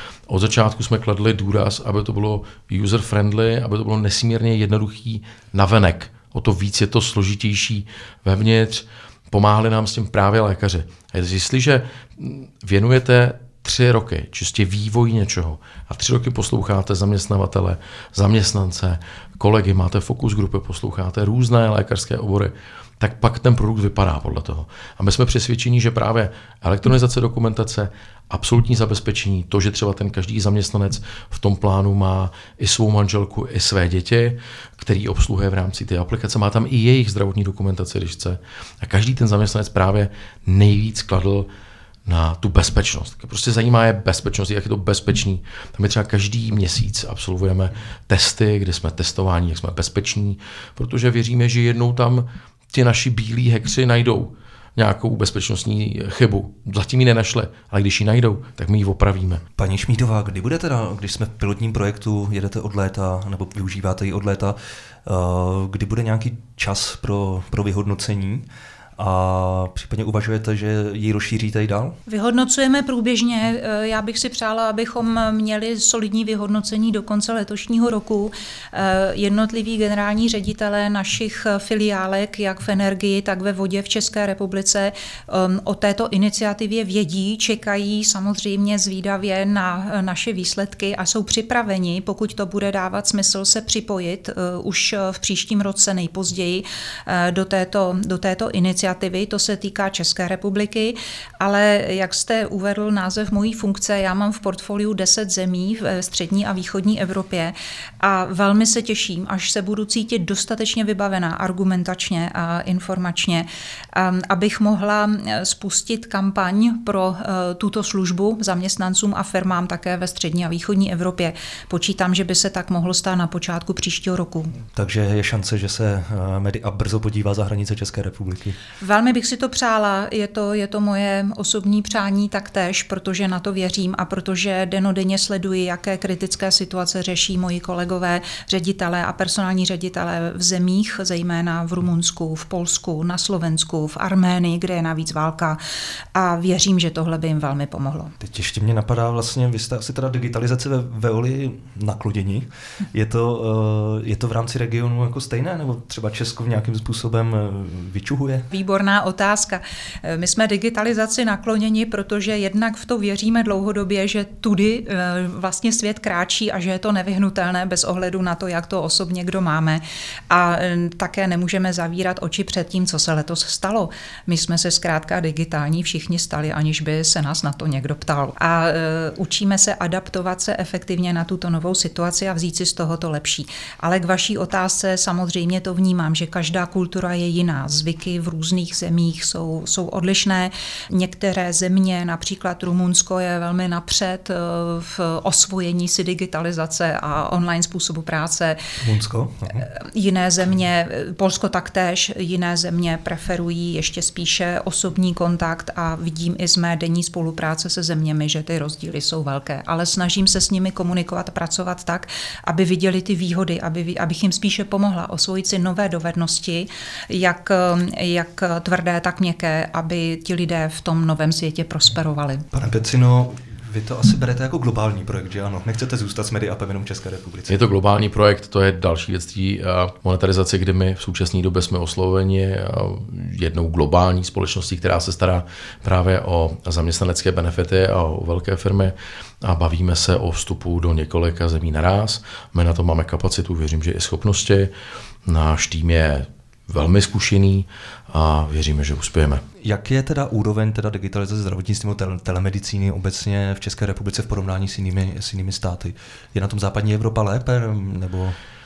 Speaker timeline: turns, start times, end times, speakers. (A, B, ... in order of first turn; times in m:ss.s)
0:00.3-0:41.5 A
0:42.0-0:59.4 A
0:59.6-1:08.4 B
1:09.0-1:12.0 B
1:12.1-2:04.5 C
2:04.7-2:08.6 B
2:08.8-2:25.6 C
2:26.1-2:28.1 C
2:28.2-2:38.5 B
2:38.5-3:18.6 C
3:18.8-3:19.6 B
3:19.7-3:42.4 C
3:42.5-3:47.6 B
3:47.5-4:04.7 A
4:05.2-4:09.4 A
4:09.6-4:18.4 B